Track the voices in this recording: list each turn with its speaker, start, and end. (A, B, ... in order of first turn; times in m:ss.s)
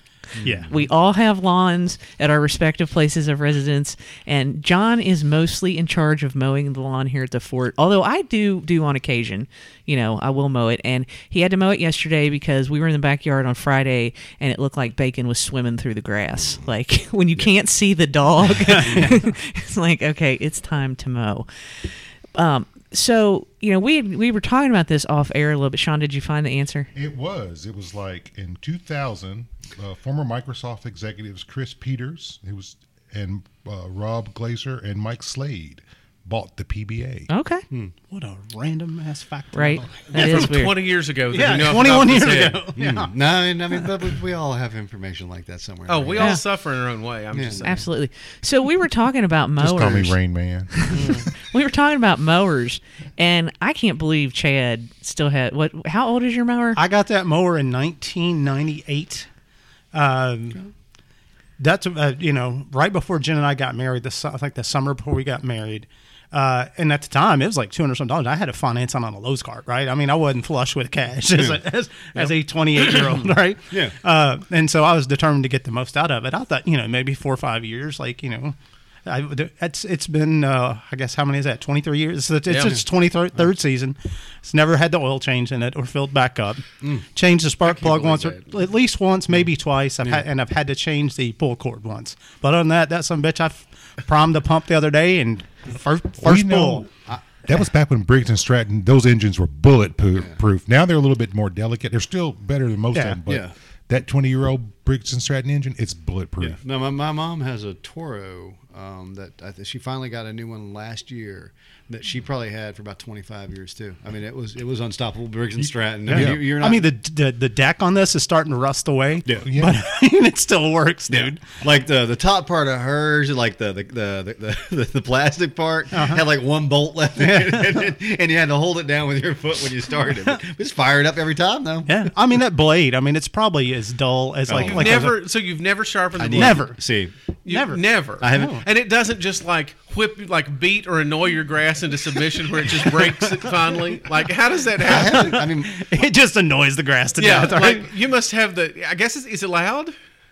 0:00.4-0:00.7 A
0:00.4-0:00.7 B
0:00.7-0:21.5 C
0:18.6-0:19.3 B
0:22.4-0:26.9 C
0:27.0-0:37.3 D
0:37.3-0:37.6 C
0:38.1-0:40.7 B
0:39.5-0:40.8 C
0:40.1-0:42.7 E
0:41.3-0:43.1 B
0:42.7-0:46.4 A
0:45.9-0:47.8 E
0:47.3-0:47.7 A
0:47.6-0:50.2 C
0:49.6-0:50.7 D
0:50.7-0:56.8 C
0:50.9-0:51.3 E
0:56.8-0:59.3 B
0:59.9-1:00.6 B
1:01.6-1:26.6 B
1:11.4-1:11.6 A
1:13.7-1:14.0 A
1:22.5-1:22.8 E
1:27.1-1:36.9 B
1:27.6-1:28.5 E
1:36.2-1:36.9 D
1:37.4-1:46.6 D
1:42.9-1:43.2 B
1:43.3-1:43.5 A
1:46.4-1:56.9 A
1:56.1-2:01.6 B
1:56.1-1:56.4 D
1:59.2-1:59.5 A
1:59.4-1:59.8 D
2:01.1-2:12.0 A
2:05.9-2:06.2 B
2:07.2-2:07.9 B
2:11.9-2:15.2 B
2:14.5-2:15.1 A
2:14.5-2:16.7 E
2:16.2-2:17.1 A
2:16.3-2:16.8 B
2:17.4-2:25.5 E
2:17.5-2:18.6 B
2:18.2-2:18.6 A
2:23.0-2:23.3 B
2:24.8-2:25.8 A
2:24.9-2:27.9 B
2:27.2-2:30.0 E